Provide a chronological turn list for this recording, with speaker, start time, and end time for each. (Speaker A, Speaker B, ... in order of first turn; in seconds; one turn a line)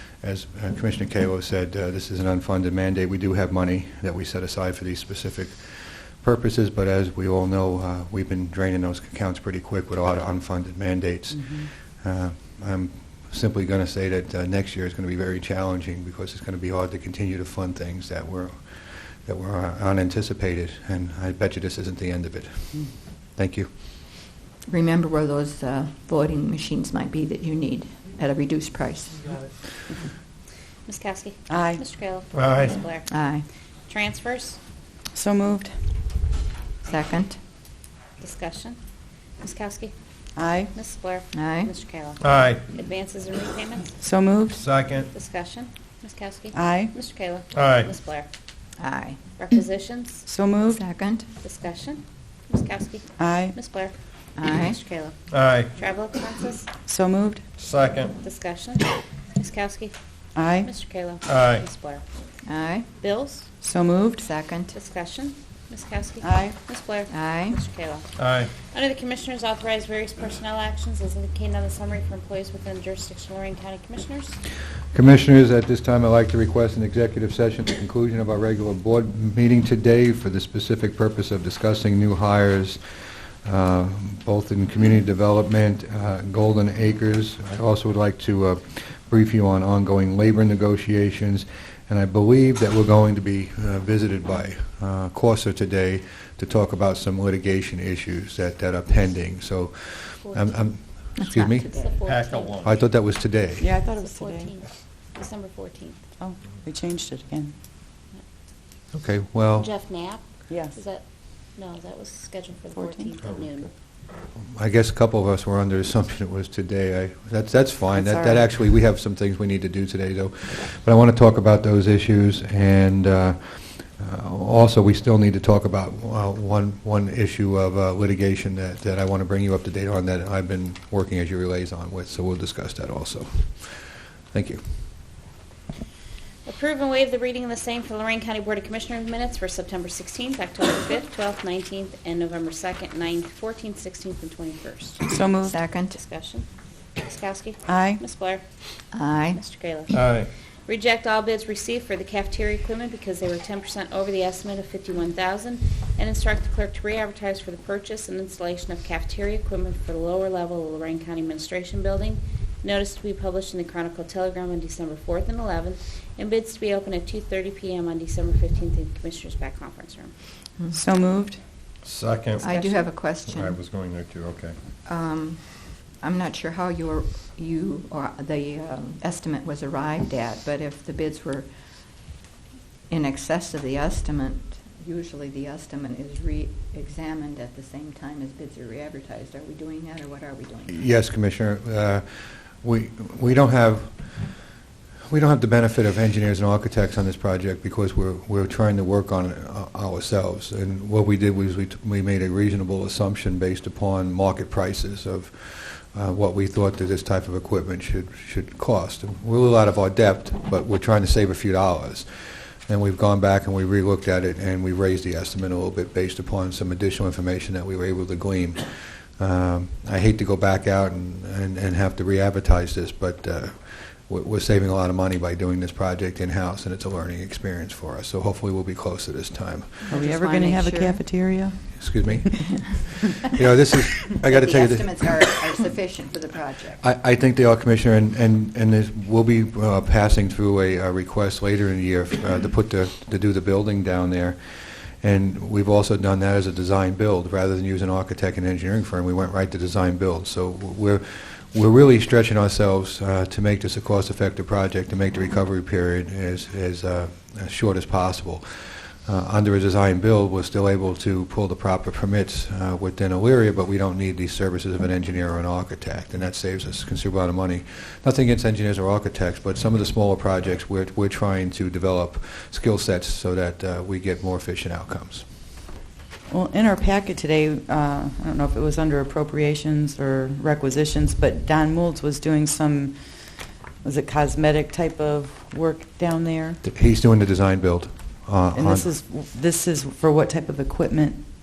Speaker A: 0.2-23.7
Speaker B: 24.7-29.5
Speaker C: 30.9-33.1
Speaker D: 31.5-31.8
Speaker E: 32.3-32.8
Speaker B: 33.1-33.5
Speaker C: 33.9-34.6
Speaker D: 35.1-35.7
Speaker B: 36.8-37.4
Speaker C: 38.2-38.8
Speaker C: 39.4-39.9
Speaker D: 40.4-40.7
Speaker C: 40.7-43.9
Speaker B: 41.3-41.7
Speaker E: 42.2-42.7
Speaker D: 44.0-44.6
Speaker E: 44.5-45.1
Speaker C: 45.1-48.3
Speaker D: 46.5-46.9
Speaker E: 47.5-47.9
Speaker B: 48.8-49.2
Speaker C: 49.4-50.2
Speaker D: 50.3-50.8
Speaker B: 50.7-51.3
Speaker C: 51.4-53.9
Speaker D: 53.2-53.5
Speaker B: 54.4-54.8
Speaker C: 54.5-55.1
Speaker E: 55.3-55.7
Speaker C: 55.7-56.7
Speaker D: 56.9-57.4
Speaker E: 57.6-58.1
Speaker C: 58.2-60.0
Speaker D: 60.4-60.7
Speaker C: 60.6-62.0
Speaker E: 61.2-61.7
Speaker B: 62.4-62.9
Speaker C: 63.0-63.5
Speaker D: 63.6-64.2
Speaker B: 64.2-64.7
Speaker C: 64.7-74.4
Speaker D: 66.2-66.5
Speaker B: 67.1-67.6
Speaker E: 68.2-68.5
Speaker A: 74.9-82.8
Speaker A: 83.4-101.7
Speaker C: 100.2-100.6
Speaker B: 101.2-102.0
Speaker C: 101.6-102.8
Speaker E: 102.0-102.8
Speaker A: 102.6-103.7
Speaker D: 103.6-104.5
Speaker C: 104.0-106.0
Speaker D: 106.2-107.5
Speaker A: 108.9-109.7
Speaker C: 109.6-113.7
Speaker D: 112.7-113.2
Speaker E: 113.2-113.7
Speaker A: 114.3-134.6
Speaker D: 118.0-118.4
Speaker C: 136.4-145.1
Speaker D: 145.1-145.6
Speaker B: 145.5-146.0
Speaker C: 145.9-146.5
Speaker C: 147.0-148.4
Speaker D: 147.7-148.0
Speaker B: 148.9-149.4
Speaker C: 149.3-170.1
Speaker E: 149.9-150.3
Speaker D: 170.7-171.4
Speaker E: 171.8-172.5
Speaker B: 172.4-173.6
Speaker C: 172.5-172.8
Speaker E: 173.2-174.6
Speaker B: 174.8-181.5
Speaker B: 182.9-190.8
Speaker A: 190.7-194.2
Speaker A: 195.1-229.9
Speaker B: 229.8-231.0
Speaker D: 229.9-231.8
Speaker A: 231.8-235.1
Speaker B: 234.2-236.8
Speaker A: 236.8-275.2
Speaker D: 276.3-283.0
Speaker D: 283.8-286.6
Speaker A: 286.6-288.9
Speaker D: 288.5-291.2